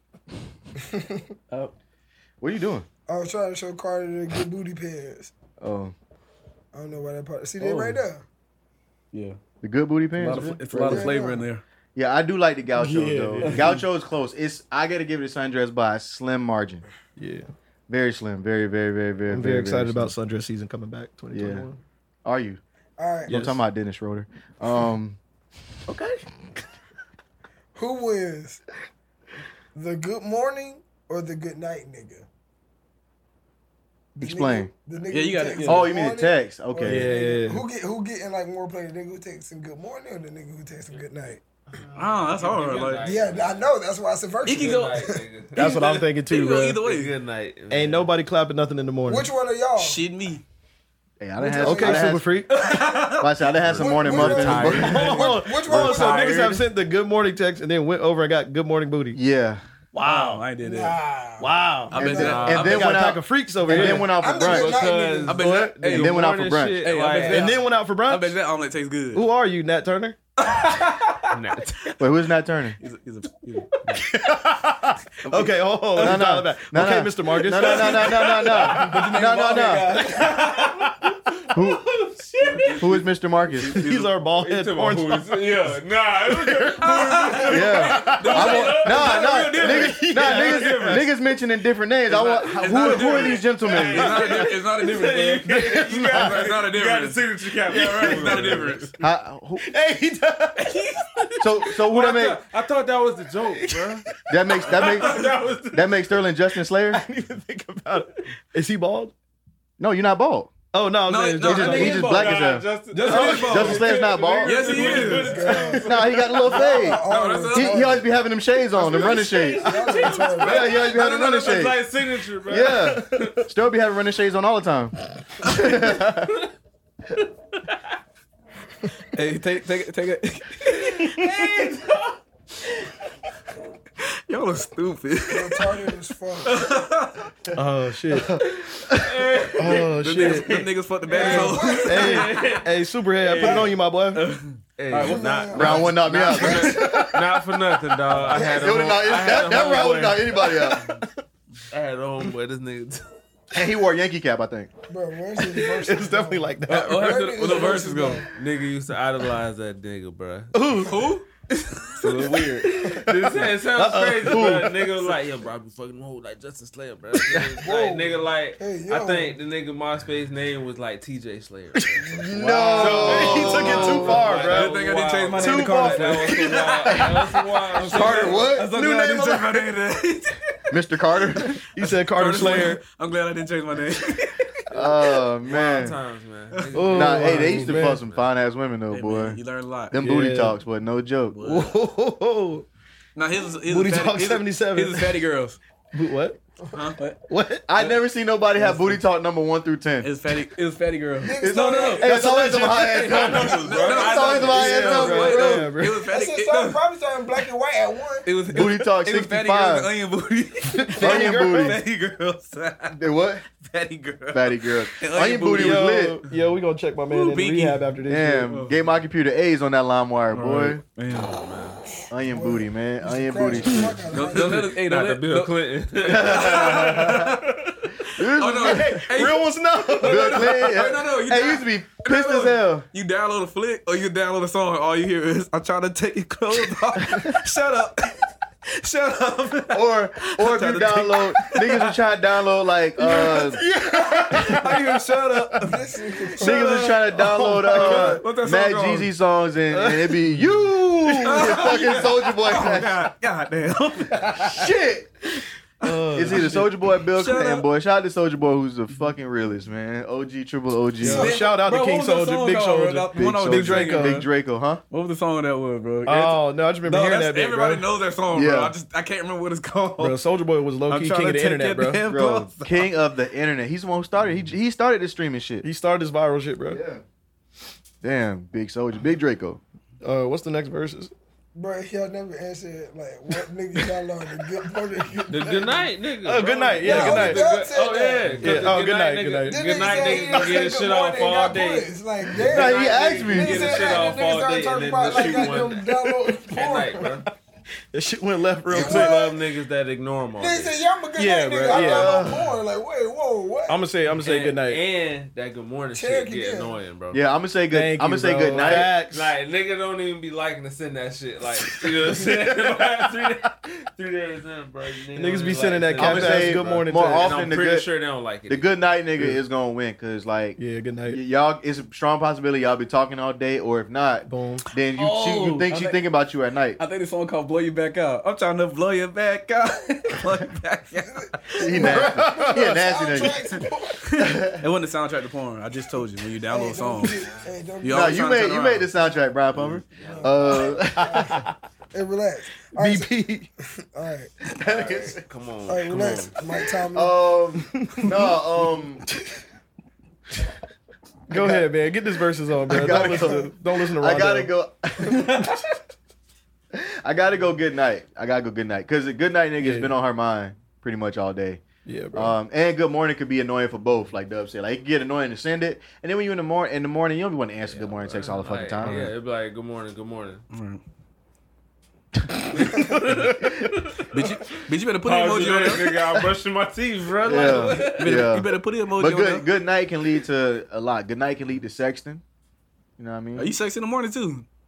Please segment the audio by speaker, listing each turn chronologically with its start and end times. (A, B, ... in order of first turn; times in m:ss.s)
0:00.9-0:01.2 A
0:02.4-0:02.8 B
0:03.1-0:05.3 A
0:05.6-0:05.9 B
0:06.7-0:08.2 A
0:07.6-0:08.0 C
0:09.1-0:09.4 C
0:09.6-0:10.9 B
0:10.2-0:11.6 C
0:10.7-0:11.2 D
0:10.9-0:11.4 A
0:11.9-0:16.8 B
0:12.8-0:13.8 D
0:13.4-0:13.7 C
0:17.2-0:17.5 D
0:17.9-0:20.1 B
0:19.3-0:21.8 D
0:21.3-0:21.6 B
0:22.2-0:22.6 B
0:23.0-0:23.3 A
0:23.3-0:23.6 D
0:23.3-0:25.2 B
0:25.9-0:26.2 D
0:27.7-0:28.6 A
0:29.7-0:32.2 A
0:34.1-0:34.7 B
0:34.2-0:41.4 A
0:35.1-0:35.9 C
0:35.6-0:37.1 B
0:36.8-0:37.6 D
0:41.7-0:43.7 E
0:41.9-0:43.1 C
0:43.0-0:45.2 A
0:44.4-0:45.0 C
0:44.4-0:45.8 E
0:45.6-0:46.8 D
0:45.6-0:47.1 C
0:46.8-0:48.1 E
0:47.7-0:49.3 D
0:49.1-0:50.0 A
0:49.8-0:50.4 C
0:51.2-0:52.3 B
0:51.4-0:52.1 A
0:51.6-0:52.5 D
0:52.5-0:53.9 C
0:53.2-0:55.1 B
0:53.8-0:56.5 A
0:54.1-0:59.2 D
0:54.2-0:56.6 E
0:59.1-0:59.6 B
0:59.9-1:00.4 D
1:00.0-1:01.0 C
1:00.6-1:01.5 A
1:01.4-1:04.2 D
1:01.9-1:03.0 C
1:01.9-1:04.9 B
1:02.0-1:02.9 E
1:03.7-1:07.6 E
1:04.1-1:05.4 A
1:05.2-1:06.3 C
1:05.4-1:05.9 D
1:05.8-1:06.8 B
1:06.8-1:09.2 C
1:07.2-1:08.3 D
1:09.1-1:10.2 D
1:10.4-1:11.3 C
1:11.3-1:12.0 E
1:12.0-1:12.8 B
1:12.8-1:14.0 C
1:13.9-1:20.6 D
1:15.2-1:16.2 C
1:15.9-1:20.0 B
1:17.4-1:20.9 C
1:20.1-1:20.9 E
1:21.5-1:22.0 B
1:21.5-1:23.0 E
1:22.5-1:23.0 C
1:22.8-1:23.8 B
1:23.6-1:24.1 C
1:23.8-1:25.5 D
1:24.2-1:30.6 E
1:26.2-1:31.0 D
1:26.8-1:31.0 C
1:27.5-1:34.3 B
1:32.1-1:38.9 C
1:32.6-1:38.9 E
1:32.7-1:33.3 D
1:34.0-1:34.6 D
1:35.4-1:36.5 D
1:37.7-1:38.7 D
1:39.0-1:39.7 B
1:39.6-1:41.2 D
1:40.6-1:41.3 C
1:41.4-1:42.4 B
1:41.8-1:44.0 E
1:43.5-1:44.0 D
1:44.3-1:47.0 B
1:44.6-1:46.0 E
1:44.7-1:45.3 C
1:46.9-1:49.1 D
1:49.8-1:50.5 B
1:50.7-1:52.3 D
1:51.1-1:58.0 C
1:51.4-1:52.7 B
1:51.6-1:56.2 E
1:53.0-1:55.6 D
1:53.4-1:54.8 B
1:55.1-1:55.9 A
1:55.8-1:59.8 B
1:56.4-1:58.0 A
1:58.7-2:03.5 E
1:59.5-2:00.7 A
2:00.3-2:01.8 B
2:02.5-2:06.4 B
2:09.1-2:11.3 C
2:10.7-2:12.2 E
2:14.3-2:15.9 C
2:15.3-2:16.6 A
2:16.4-2:17.3 C
2:17.5-2:18.4 D
2:18.9-2:23.7 E
2:19.6-2:20.6 D
2:19.6-2:22.5 C
2:21.1-2:22.1 A
2:21.3-2:24.2 D
2:24.1-2:25.8 C
2:24.8-2:30.4 E
2:25.0-2:26.5 A
2:25.5-2:27.2 B
2:26.6-2:27.2 D
2:28.3-2:31.0 B
2:30.4-2:30.8 D
2:31.7-2:33.0 E
2:33.5-2:34.7 B
2:34.9-2:38.2 A
2:35.7-2:37.3 D
2:36.7-2:38.2 C
2:38.3-2:41.2 E
2:40.5-2:41.0 D
2:40.8-2:41.2 C
2:41.9-2:43.0 C
2:42.0-2:58.5 E
2:42.7-2:44.8 D
2:47.6-2:49.4 A
2:51.7-2:54.8 D
2:52.3-2:54.2 B
2:52.4-2:52.8 A
2:52.6-3:00.4 C
2:55.3-2:56.6 D
2:57.8-2:58.9 B
2:58.7-2:59.6 D
3:00.7-3:01.6 B
3:01.7-3:02.8 D
3:01.8-3:04.5 C
3:04.7-3:06.0 B
3:05.4-3:08.3 E
3:06.7-3:08.0 D
3:06.9-3:09.4 B
3:08.9-3:09.9 C
3:09.9-3:11.4 B
3:10.0-3:10.6 D
3:11.3-3:11.8 C
3:11.4-3:12.6 D
3:13.2-3:15.6 C
3:13.6-3:15.2 D
3:15.9-3:16.4 D
3:16.7-3:17.2 C
3:17.3-3:17.9 D
3:17.7-3:20.1 B
3:20.0-3:26.8 C
3:21.2-3:22.0 A
3:21.4-3:25.6 B
3:22.0-3:23.0 D
3:23.0-3:24.7 E
3:24.5-3:26.0 D
3:25.4-3:28.3 A
3:28.2-3:33.0 C
3:28.5-3:29.9 B
3:30.7-3:31.8 D
3:31.0-3:31.8 B
3:32.9-3:33.4 B
3:33.6-3:36.0 C
3:34.3-3:36.2 B
3:35.5-3:38.5 D
3:37.1-3:37.8 C
3:38.1-3:40.8 B
3:38.5-3:38.7 C
3:40.3-3:41.3 C
3:41.1-3:41.8 E
3:42.1-3:44.0 B
3:42.3-3:44.7 A
3:44.1-4:02.0 C
3:44.3-3:47.4 E
3:46.0-3:47.4 B
3:48.1-3:49.1 B
3:48.6-3:50.7 D
3:50.0-3:52.8 B
3:59.7-4:03.6 B
4:03.1-4:05.6 D
4:03.1-4:05.8 C
4:05.6-4:06.7 A
4:06.4-4:09.1 C
4:06.4-4:13.0 B
4:06.6-4:08.2 D
4:09.7-4:12.0 D
4:11.2-4:14.7 C
4:14.4-4:15.1 B
4:15.8-4:17.7 C
4:15.8-4:16.7 D
4:16.1-4:21.3 B
4:21.0-4:24.2 D
4:21.1-4:24.3 C
4:21.1-4:21.4 A
4:23.1-4:24.8 B
4:24.9-4:30.2 C
4:26.0-4:27.8 D
4:28.3-4:28.7 B
4:30.0-4:32.0 D
4:30.9-4:32.9 C
4:32.0-4:35.6 B
4:35.6-4:36.8 D
4:36.6-4:37.0 B
4:38.0-4:39.6 B
4:40.0-4:41.1 D
4:41.5-4:45.8 A
4:45.3-4:51.9 E
4:46.2-4:47.4 D
4:46.8-4:48.7 A
4:48.4-4:50.4 D
4:49.5-4:57.1 A
4:52.4-4:54.0 B
4:52.5-4:55.9 E
4:55.1-4:55.9 D
4:56.5-4:57.3 E
4:57.9-4:59.2 D
4:58.7-5:00.8 E
4:58.7-4:59.4 A
5:00.4-5:03.8 A
5:01.2-5:02.2 D
5:01.7-5:02.6 B
5:03.7-5:04.8 D
5:04.2-5:07.2 E
5:05.9-5:06.7 A
5:07.1-5:08.9 B
5:07.7-5:09.3 D
5:08.6-5:18.7 E
5:15.1-5:17.7 D
5:16.0-5:17.9 B
5:18.5-5:26.8 B
5:20.6-5:21.2 D
5:24.2-5:24.6 D
5:24.9-5:26.0 C
5:26.8-5:32.0 C
5:31.2-5:34.0 A
5:31.6-5:33.5 B
5:31.9-5:32.7 D
5:34.0-5:37.2 C
5:34.1-5:34.6 B
5:36.5-5:38.2 A
5:37.8-5:38.9 C
5:37.9-5:41.4 B
5:39.5-5:40.7 E
5:40.0-5:41.4 A
5:41.0-5:41.5 D
5:41.9-5:43.2 A
5:42.8-5:43.5 D
5:43.9-5:44.3 A
5:44.6-5:45.2 B
5:44.6-5:46.3 E
5:45.7-5:47.2 A
5:46.9-5:49.0 B
5:47.7-5:48.2 D
5:51.3-5:54.5 D
5:51.3-5:51.7 B
5:52.7-5:55.5 B
5:53.0-5:53.4 A
5:55.1-5:55.5 C
5:56.7-6:01.6 B
5:59.6-5:59.9 D
6:01.8-6:02.3 D
6:02.1-6:09.1 B
6:07.6-6:10.4 E
6:10.5-6:10.8 C
6:12.6-6:14.1 E
6:14.1-6:16.1 C
6:15.0-6:18.2 E
6:17.2-6:22.2 B
6:17.7-6:19.5 C
6:23.0-6:23.5 B
6:23.4-6:24.4 C